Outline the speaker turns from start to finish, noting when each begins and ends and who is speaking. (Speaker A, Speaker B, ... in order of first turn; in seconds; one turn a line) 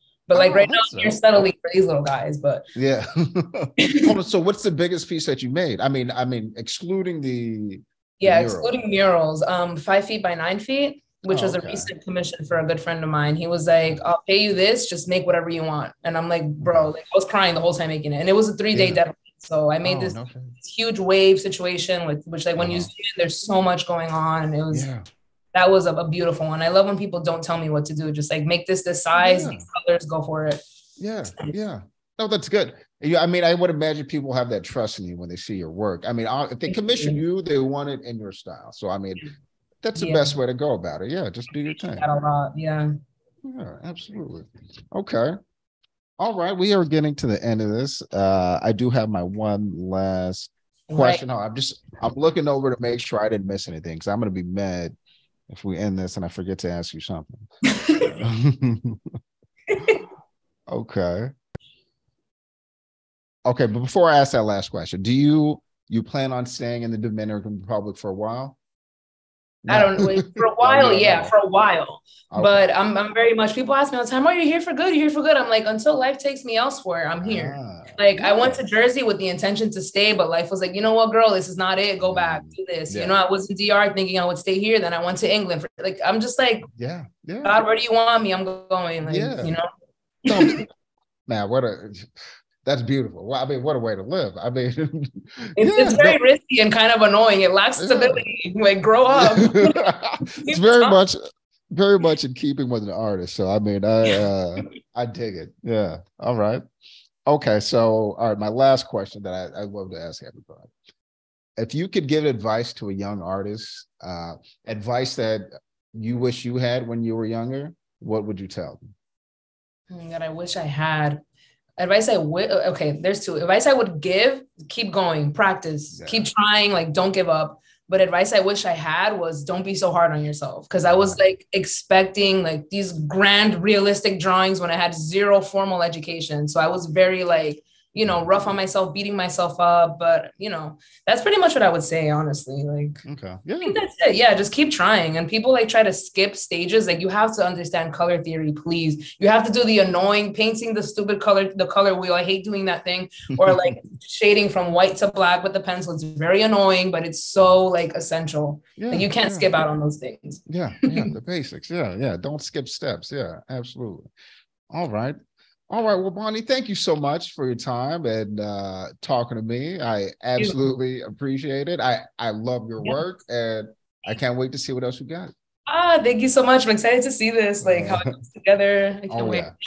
Speaker A: 0.3-2.6
Speaker B: 0.3-1.2
Speaker B: 2.7-8.7
Speaker A: 3.8-4.1
Speaker A: 8.2-24.9
Speaker B: 11.3-11.9
Speaker B: 16.6-16.9
Speaker B: 18.7-19.0
Speaker B: 19.8-20.6
Speaker B: 22.6-22.9
Speaker B: 24.7-25.0
Speaker A: 25.5-30.6
Speaker B: 29.2-29.6
Speaker B: 31.0-39.3
Speaker A: 36.7-37.2
Speaker B: 39.8-42.0
Speaker A: 40.0-40.4
Speaker A: 41.9-42.9
Speaker B: 43.4-45.3
Speaker B: 46.2-54.9
Speaker A: 50.9-51.2
Speaker B: 55.5-57.5
Speaker A: 57.6-58.1
Speaker B: 58.0-59.2
Speaker A: 59.7-60.0
Speaker B: 60.7-61.3
Speaker B: 63.4-68.6
Speaker B: 69.7-71.3
Speaker A: 69.7-86.6
Speaker B: 72.3-72.7
Speaker B: 77.2-78.6
Speaker B: 82.0-83.2
Speaker B: 86.8-87.6
Speaker A: 87.4-89.7
Speaker B: 89.0-89.5
Speaker A: 90.2-90.6
Speaker B: 90.3-90.7
Speaker B: 91.3-96.2
Speaker A: 95.6-99.8
Speaker B: 97.8-98.2
Speaker B: 99.1-106.6
Speaker A: 100.3-101.0
Speaker B: 107.2-110.7
Speaker B: 111.6-118.9
Speaker A: 119.9-121.2
Speaker A: 121.8-143.0
Speaker B: 125.9-126.3
Speaker B: 130.8-131.2
Speaker B: 143.0-143.8
Speaker A: 143.6-161.1
Speaker B: 153.3-153.8
Speaker B: 158.8-159.5
Speaker B: 160.5-164.1
Speaker B: 164.7-165.2
Speaker B: 165.7-175.3
Speaker A: 175.7-179.5
Speaker B: 177.6-178.1
Speaker B: 179.1-179.5